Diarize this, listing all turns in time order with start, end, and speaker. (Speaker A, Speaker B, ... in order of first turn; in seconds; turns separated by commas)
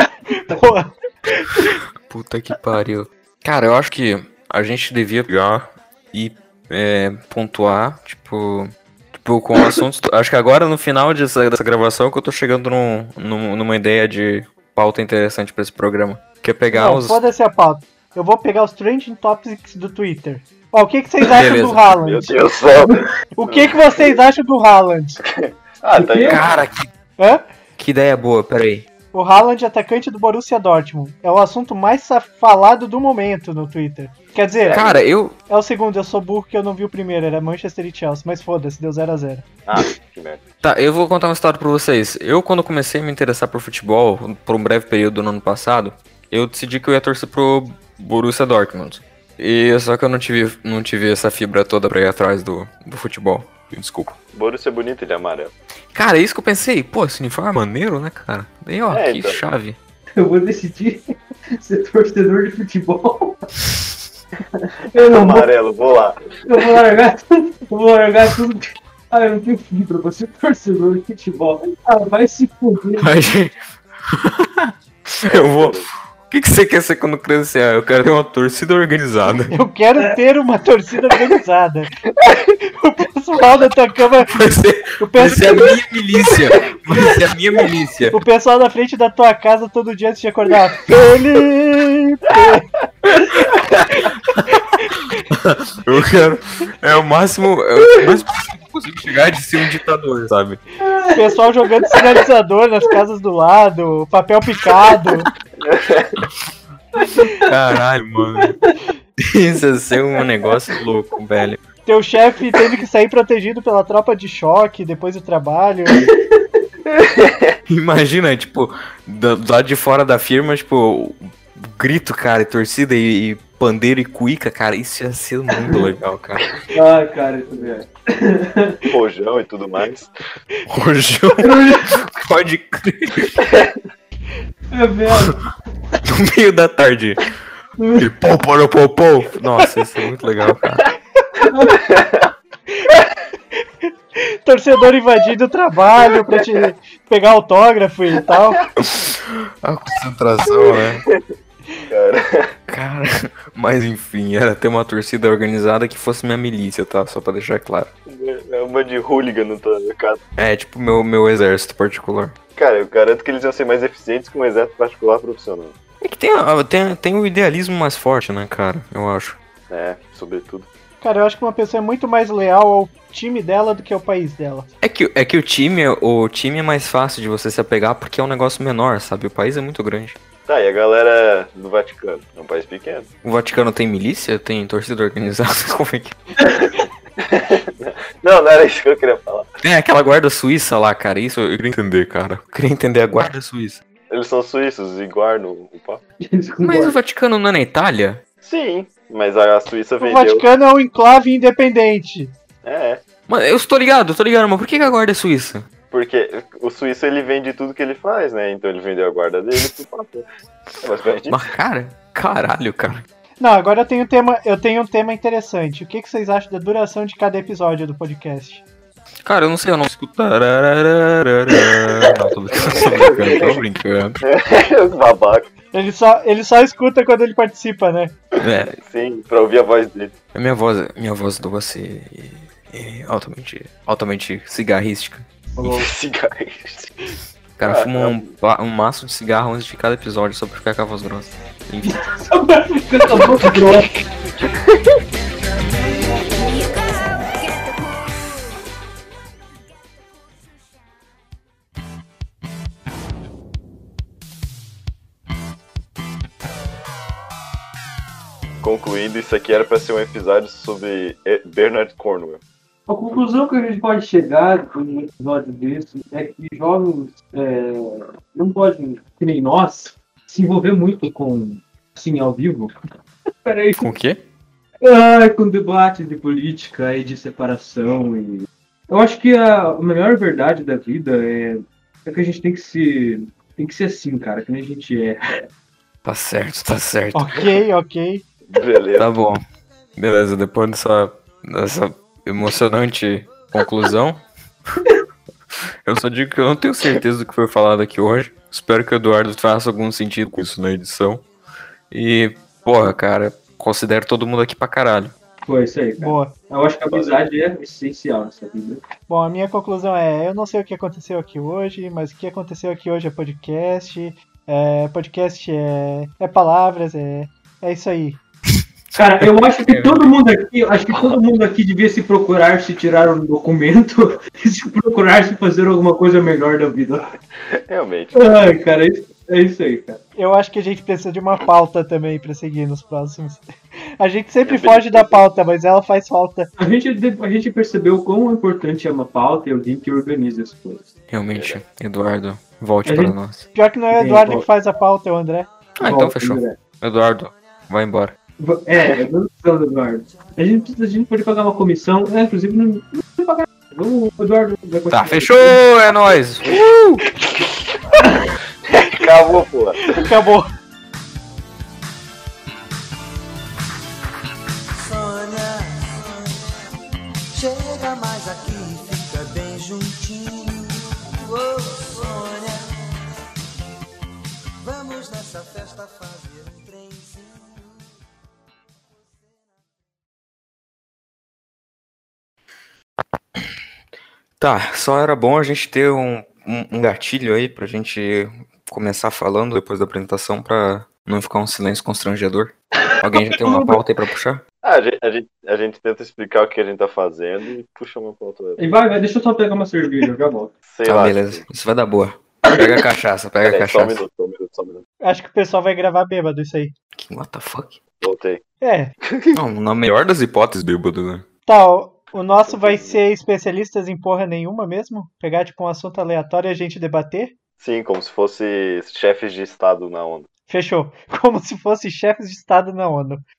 Speaker A: 0.4-1.7, Speaker B: 2.0-17.2, Speaker A: 16.7-22.4, Speaker B: 21.3-21.8, Speaker C: 22.0-24.2, Speaker A: 23.3-25.2, Speaker C: 25.2-26.5, Speaker D: 25.9-26.4, Speaker B: 26.3-26.9, Speaker A: 27.2-27.4, Speaker B: 27.8-28.9, Speaker A: 29.1-34.8, Speaker C: 34.6-35.0, Speaker B: 34.7-35.4, Speaker A: 35.5-39.4, Speaker C: 39.6-40.4, Speaker B: 40.6-54.1, Speaker C: 54.3-55.5, Speaker B: 55.9-59.8, Speaker C: 58.9-59.4, Speaker D: 60.2-63.4, Speaker D: 64.6-65.5, Speaker C: 64.9-66.3, Speaker D: 66.4-73.1, Speaker B: 73.0-79.5, Speaker C: 75.3-75.9, Speaker A: 79.5-82.0, Speaker A: 82.6-84.4, Speaker B: 84.2-88.2, Speaker A: 85.0-85.7, Speaker A: 88.1-92.7, Speaker B: 93.3-94.4, Speaker A: 94.5-94.9, Speaker B: 95.1-100.6, Speaker D: 100.8-101.2, Speaker A: 101.1-105.3, Speaker C: 105.6-106.2, Speaker B: 107.4-108.6, Speaker B: 109.2-111.6, Speaker A: 111.8-116.1, Speaker C: 116.9-117.5, Speaker B: 117.7-126.5, Speaker D: 126.7-128.8, Speaker C: 128.8-130.1, Speaker B: 130.7-133.4, Speaker D: 131.4-131.9, Speaker C: 133.5-133.7, Speaker D: 134.7-135.3, Speaker B: 136.0-137.3, Speaker D: 137.8-138.1, Speaker B: 138.0-140.9, Speaker D: 141.4-141.8, Speaker C: 141.8-142.3, Speaker A: 144.4-148.6, Speaker B: 148.8-151.0, Speaker C: 150.5-151.2, Speaker C: 151.9-152.6, Speaker B: 152.7-157.9, Speaker C: 158.1-160.2, Speaker B: 160.4-162.3, Speaker C: 162.6-165.7, Speaker B: 166.0-169.4, Speaker C: 169.7-170.7, Speaker A: 171.0-174.7, Speaker B: 174.8-180.2, Speaker C: 180.4-183.1, Speaker B: 183.2-186.2, Speaker D: 186.4-186.7, Speaker C: 187.2-189.5, Speaker B: 189.6-193.8, Speaker C: 194.1-196.0, Speaker D: 196.2-197.0, Speaker B: 196.6-198.2, Speaker C: 198.4-200.4, Speaker A: 200.0-202.3, Speaker C: 202.6-203.0, Speaker B: 203.3-205.7, Speaker C: 205.9-210.3, Speaker C: 210.8-211.5, Speaker B: 211.3-213.1, Speaker A: 213.4-218.6, Speaker B: 219.2-224.2, Speaker C: 222.5-223.6, Speaker C: 224.2-225.5, Speaker A: 225.7-228.1, Speaker B: 228.4-228.8, Speaker C: 228.8-230.1, Speaker B: 230.3-235.2, Speaker D: 235.6-235.9, Speaker C: 235.6-237.0, Speaker B: 237.6-242.0, Speaker C: 237.6-238.3, Speaker D: 241.8-244.0, Speaker C: 244.4-244.7, Speaker E: 245.8-248.4, Speaker C: 258.6-262.4, Speaker D: 262.9-272.7, Speaker D: 273.4-273.8, Speaker B: 273.8-274.2, Speaker D: 274.8-285.4, Speaker B: 286.0-287.5, Speaker A: 287.1-288.2, Speaker C: 288.5-289.1, Speaker B: 288.9-289.4, Speaker B: 289.9-294.2, Speaker B: 295.9-301.2, Speaker B: 301.9-305.1, Speaker D: 305.4-308.8, Speaker A: 306.0-306.3, Speaker C: 306.9-307.2, Speaker A: 309.1-318.2, Speaker B: 318.9-320.1, Speaker D: 318.9-327.1, Speaker B: 320.9-321.2, Speaker C: 327.6-328.3, Speaker D: 328.1-330.0, Speaker A: 330.2-336.5, Speaker C: 334.4-335.3, Speaker D: 336.6-340.8, Speaker B: 341.1-343.4, Speaker C: 341.3-341.6, Speaker D: 342.8-343.2, Speaker A: 343.5-345.5, Speaker D: 343.9-344.4, Speaker B: 345.8-348.1, Speaker D: 345.8-346.6, Speaker D: 348.4-355.6, Speaker B: 354.9-357.1, Speaker C: 358.7-360.1, Speaker A: 359.9-360.5, Speaker E: 364.7-366.4, Speaker E: 367.3-373.2, Speaker E: 374.6-377.9, Speaker B: 384.4-394.4, Speaker D: 392.9-393.8, Speaker C: 394.6-398.6, Speaker D: 398.6-400.5, Speaker C: 400.7-401.4, Speaker B: 400.9-404.0, Speaker D: 402.5-402.8, Speaker C: 403.4-404.8, Speaker A: 405.0-406.7, Speaker B: 406.9-407.8, Speaker C: 408.0-408.4, Speaker A: 408.6-408.9, Speaker C: 409.1-409.4, Speaker B: 409.3-411.2, Speaker A: 411.5-417.3, Speaker C: 412.4-413.0, Speaker C: 417.6-420.3, Speaker A: 420.5-423.2